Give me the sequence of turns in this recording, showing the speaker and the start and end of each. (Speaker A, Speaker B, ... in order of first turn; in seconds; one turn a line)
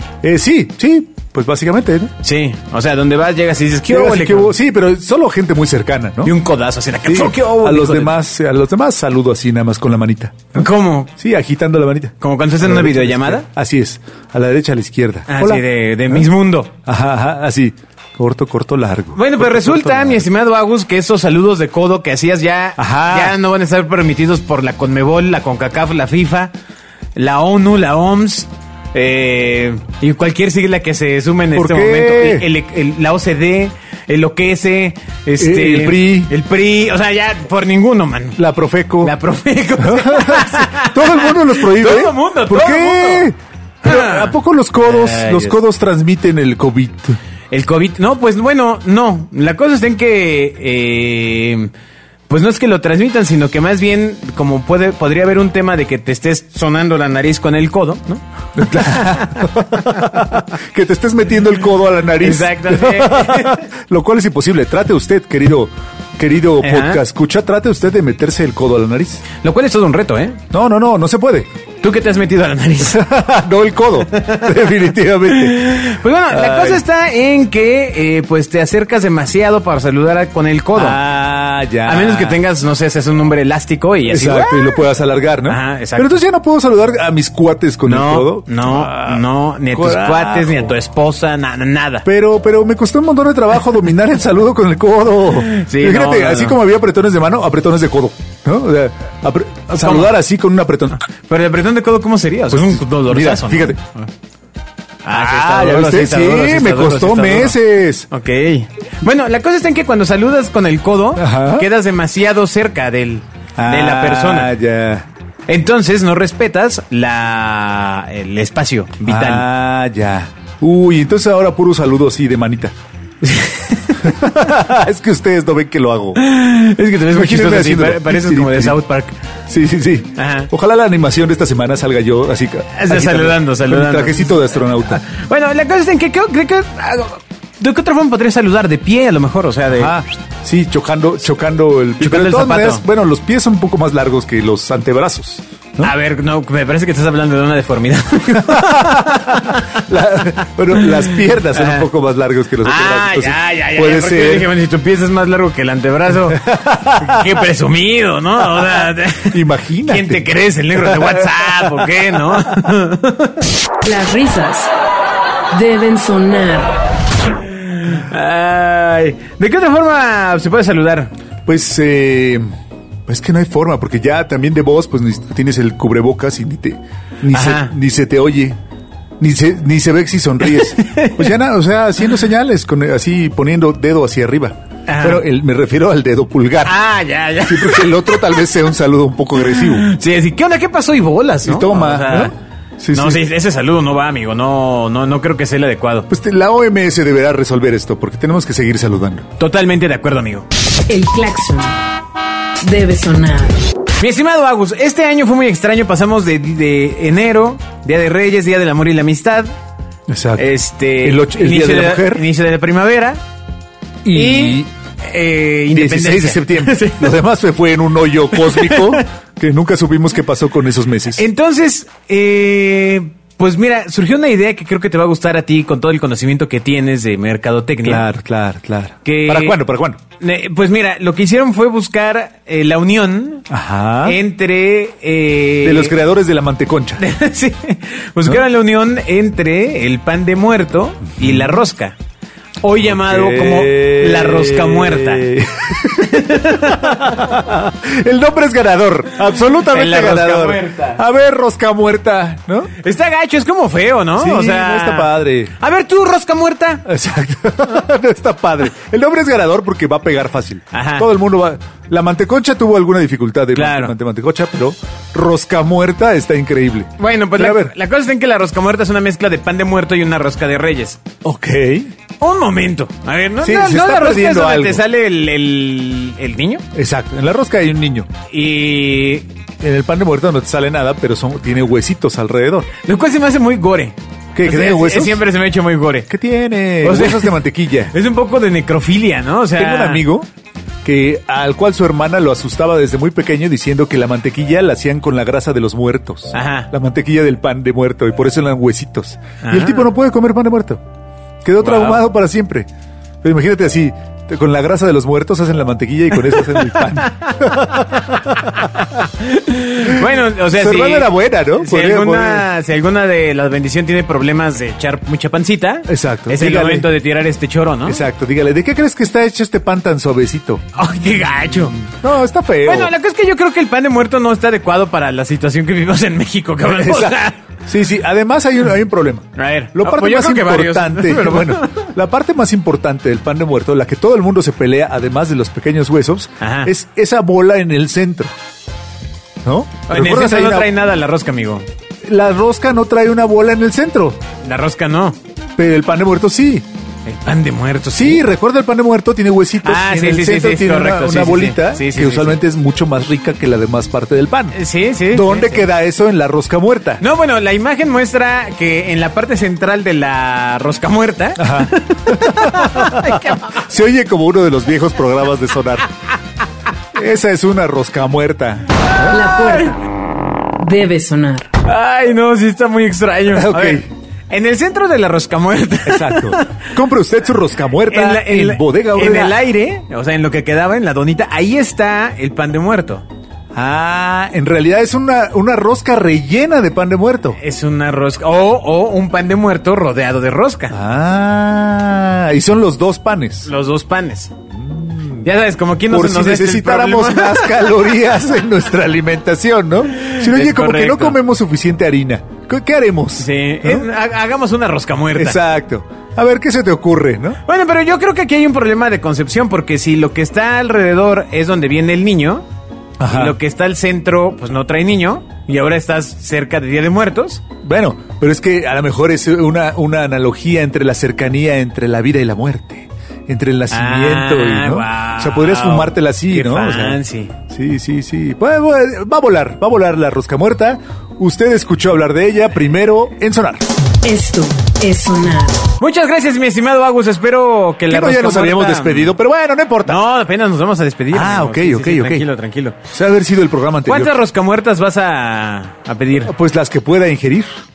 Speaker A: 0.2-2.1
Speaker B: 2.2-4.5
Speaker A: 3.9-6.3
Speaker B: 6.2-8.2
Speaker A: 7.0-16.3
Speaker B: 10.6-11.1
Speaker B: 12.2-13.4
Speaker B: 15.3-16.7
Speaker A: 16.9-20.2
Speaker B: 19.1-26.5
Speaker A: 22.8-23.4
Speaker B: 27.2-38.4
Speaker A: 31.5-32.5
Speaker A: 35.4-36.3
Speaker A: 38.4-39.1
Speaker B: 39.0-43.3
Speaker A: 39.8-47.2
Speaker B: 43.9-45.6
Speaker B: 47.5-51.7
Speaker B: 52.3-58.2
Speaker A: 58.6-69.2
Speaker B: 58.8-60.0
Speaker B: 62.2-63.6
Speaker B: 66.6-67.0
Speaker B: 69.4-70.4
Speaker A: 70.5-71.5
Speaker B: 71.8-73.0
Speaker A: 72.8-75.8
Speaker B: 74.1-81.0
Speaker A: 76.3-76.8
Speaker A: 80.8-82.4
Speaker B: 81.8-84.8
Speaker A: 84.1-90.7
Speaker B: 85.5-86.2
Speaker B: 87.8-92.1
Speaker A: 92.0-101.0
Speaker B: 95.5-96.6
Speaker B: 99.8-100.2
Speaker B: 101.3-104.1
Speaker A: 102.5-103.8
Speaker B: 105.0-107.6
Speaker A: 105.1-108.1
Speaker B: 108.1-114.5
Speaker A: 111.2-111.7
Speaker A: 113.6-115.1
Speaker B: 115.5-119.5
Speaker A: 119.1-122.7
Speaker B: 123.2-124.1
Speaker A: 124.0-126.2
Speaker B: 126.2-129.1
Speaker A: 127.1-128.8
Speaker A: 129.5-135.0
Speaker B: 130.2-130.5
Speaker B: 132.8-139.9
Speaker A: 139.7-145.9
Speaker B: 142.0-142.8
Speaker B: 145.8-149.8
Speaker A: 148.3-154.5
Speaker B: 150.7-151.9
Speaker B: 152.6-163.4
Speaker A: 156.3-157.3
Speaker A: 159.3-161.9
Speaker C: 163.8-164.7
Speaker C: 165.5-166.8
Speaker B: 167.6-171.1
Speaker A: 171.5-172.5
Speaker A: 173.1-178.6
Speaker B: 177.3-177.7
Speaker A: 179.2-186.8
Speaker B: 180.5-181.3
Speaker B: 184.9-185.2
Speaker B: 186.7-188.5
Speaker A: 187.4-189.9
Speaker B: 189.4-192.3
Speaker A: 191.4-193.2
Speaker B: 192.9-196.1
Speaker A: 196.1-199.3
Speaker B: 199.4-200.5
Speaker C: 200.9-201.8
Speaker C: 202.6-203.6
Speaker B: 204.0-209.5
Speaker A: 210.1-212.3
Speaker B: 210.4-213.2
Speaker A: 214.1-214.7
Speaker B: 214.1-217.2
Speaker A: 215.7-221.2
Speaker B: 218.3-219.0
Speaker B: 221.2-228.1
Speaker A: 227.8-230.0
Speaker B: 229.1-229.6
Speaker B: 230.2-233.5
Speaker A: 233.5-234.2
Speaker B: 234.0-235.9
Speaker A: 235.6-237.1
Speaker B: 237.0-241.9
Speaker A: 241.2-241.5
Speaker B: 242.6-245.3
Speaker A: 242.8-252.7
Speaker B: 245.9-247.2
Speaker B: 249.5-251.0
Speaker B: 252.8-256.9
Speaker A: 254.2-255.5
Speaker A: 256.9-267.7
Speaker B: 260.7-261.1
Speaker B: 263.6-263.9
Speaker B: 267.0-271.0
Speaker A: 271.2-271.9
Speaker B: 272.2-276.6
Speaker A: 273.4-274.8
Speaker A: 276.7-278.1
Speaker B: 278.3-279.3
Speaker A: 279.6-282.7
Speaker B: 282.8-286.1
Speaker A: 284.3-285.2
Speaker A: 286.1-287.9
Speaker B: 286.8-287.4
Speaker B: 287.9-290.1
Speaker A: 289.6-290.3
Speaker A: 290.8-300.8
Speaker B: 296.3-296.7
Speaker B: 299.4-299.9
Speaker A: 301.4-302.7
Speaker B: 301.6-302.0
Speaker A: 303.2-308.8
Speaker B: 306.3-318.0
Speaker A: 309.8-312.5
Speaker A: 315.9-316.9
Speaker A: 317.9-320.6
Speaker B: 320.8-321.9
Speaker A: 321.8-322.9
Speaker B: 322.6-327.4
Speaker A: 326.6-338.3
Speaker B: 329.4-331.9
Speaker B: 336.4-336.7
Speaker A: 339.4-340.7
Speaker B: 339.9-341.6
Speaker A: 342.1-344.2
Speaker B: 344.4-345.2
Speaker A: 345.6-346.7
Speaker B: 347.1-348.2
Speaker A: 347.9-354.6
Speaker B: 349.6-352.4
Speaker B: 354.6-355.7
Speaker A: 355.1-357.0
Speaker B: 357.0-363.6
Speaker A: 361.4-365.9
Speaker A: 366.9-369.2
Speaker C: 369.1-369.8
Speaker C: 370.6-371.5
Speaker B: 371.6-376.6
Speaker A: 373.3-373.9
Speaker A: 375.9-379.4
Speaker B: 377.9-383.1
Speaker A: 383.5-387.4
Speaker B: 387.4-390.7
Speaker A: 390.7-393.5
Speaker B: 393.5-394.3
Speaker A: 394.5-395.3
Speaker B: 395.2-397.8
Speaker A: 395.9-403.9
Speaker B: 400.0-401.2
Speaker B: 403.2-405.4
Speaker A: 405.1-407.4
Speaker B: 407.5-412.4
Speaker A: 413.0-413.4
Speaker B: 413.1-417.4
Speaker A: 417.6-433.7
Speaker B: 423.7-427.3
Speaker C: 434.0-435.7
Speaker B: 435.8-439.1
Speaker A: 437.9-440.0
Speaker B: 439.9-442.8
Speaker A: 441.1-442.3
Speaker A: 442.9-444.1
Speaker B: 443.9-446.3
Speaker A: 446.2-447.5